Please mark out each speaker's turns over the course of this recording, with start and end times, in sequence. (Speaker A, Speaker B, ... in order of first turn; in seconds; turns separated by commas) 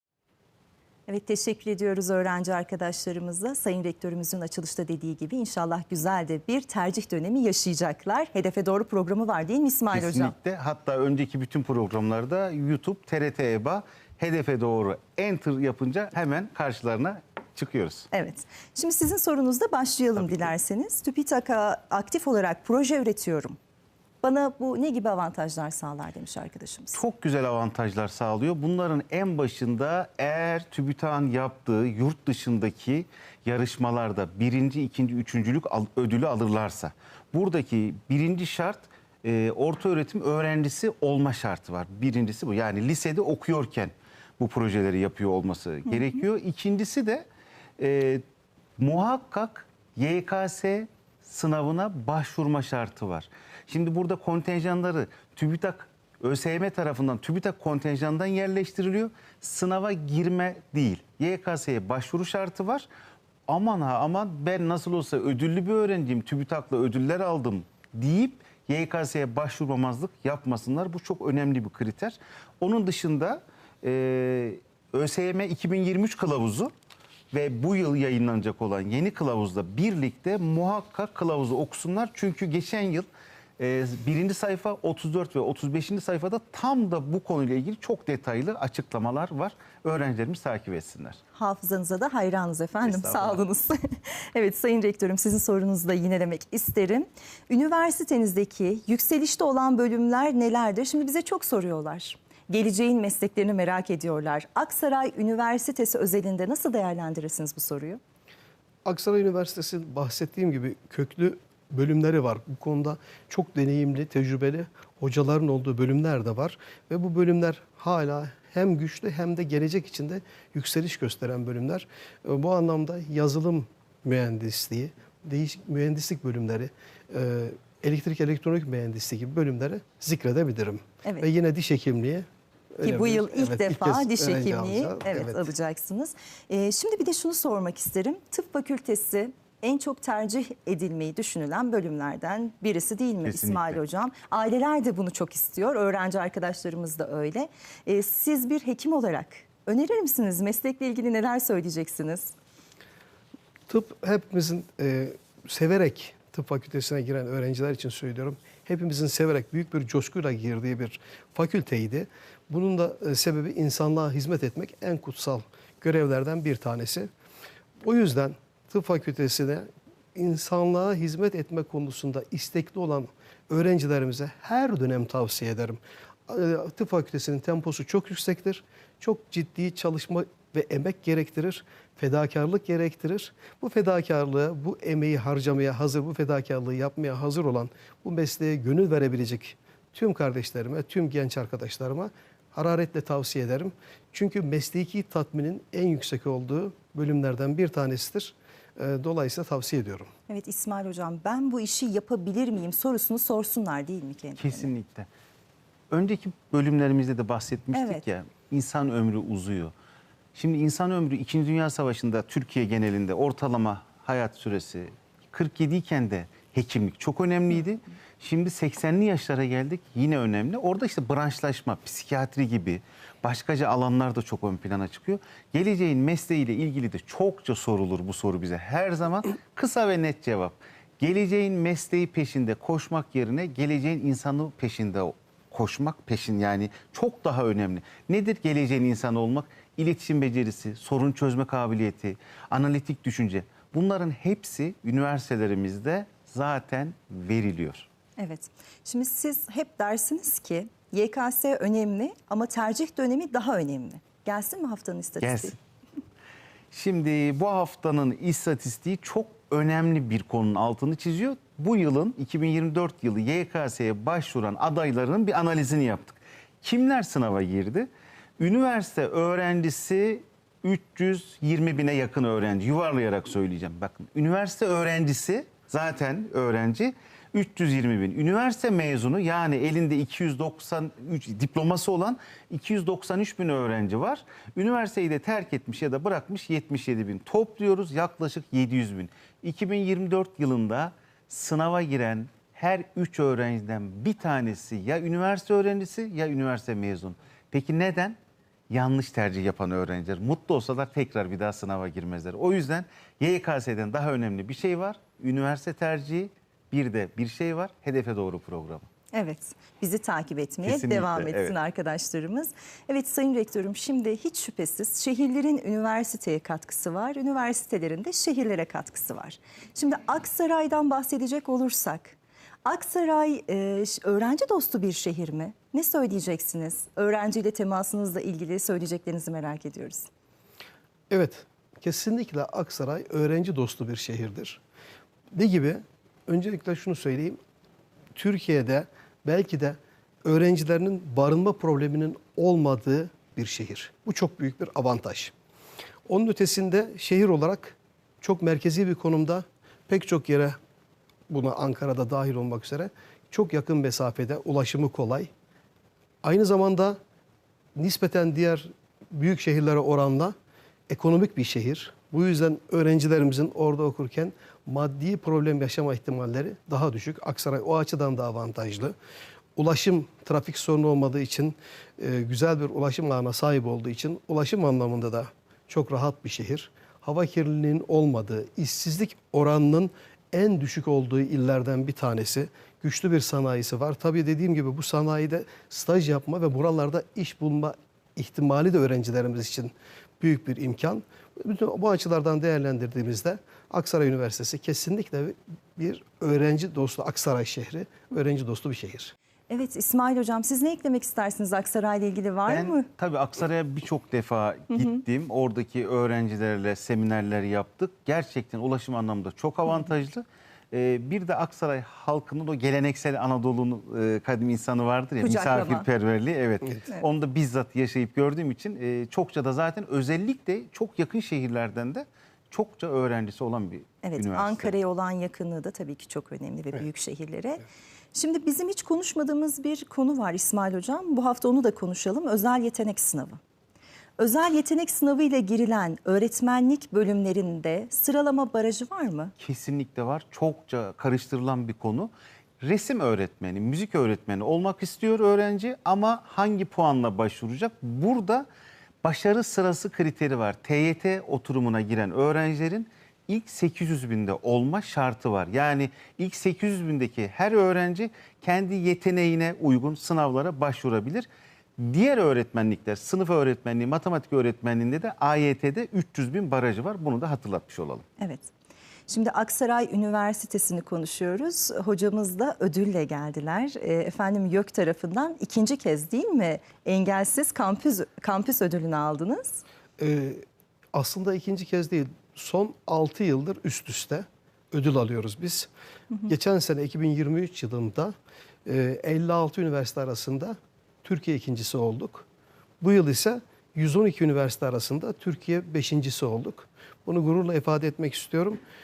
Speaker A: 1.1-10.3, Speaker B: 9.9-18.1, Speaker A: 18.1-23.6, Speaker B: 20.2-20.5, Speaker A: 24.2-27.0, Speaker B: 26.9-47.2, Speaker B: 47.8-48.2, Speaker B: 48.8-62.9, Speaker B: 63.5-76.7, Speaker B: 77.3-83.1, Speaker B: 83.6-91.2, Speaker A: 91.3-108.0, Speaker B: 92.8-93.4, Speaker C: 108.8-135.5, Speaker A: 132.8-152.3, Speaker B: 143.2-143.8, Speaker C: 153.7-167.1, Speaker C: 167.8-200.1, Speaker A: 200.3-204.7, Speaker B: 204.4-205.1, Speaker B: 205.9-209.7, Speaker A: 207.7-208.0, Speaker B: 210.3-247.9, Speaker A: 248.2-255.5, Speaker B: 255.2-255.6, Speaker B: 256.7-298.2, Speaker B: 298.7-308.9, Speaker A: 309.1-330.1, Speaker B: 310.6-311.5, Speaker C: 331.1-334.6, Speaker C: 335.3-337.4, Speaker C: 338.1-345.3, Speaker C: 346.1-350.6, Speaker C: 351.3-355.3, Speaker C: 356.2-357.0, Speaker C: 357.8-360.3, Speaker C: 360.9-368.9, Speaker C: 369.6-399.1, Speaker A: 399.5-402.9, Speaker B: 402.5-424.7, Speaker A: 415.2-415.9, Speaker A: 424.0-427.6, Speaker A: 428.1-433.4, Speaker A: 434.2-439.3, Speaker B: 439.4-448.4, Speaker B: 449.0-468.1, Speaker A: 468.2-468.5, Speaker A: 469.1-479.6, Speaker C: 480.0-485.7, Speaker C: 486.3-488.1, Speaker C: 488.6-492.2, Speaker C: 492.8-498.6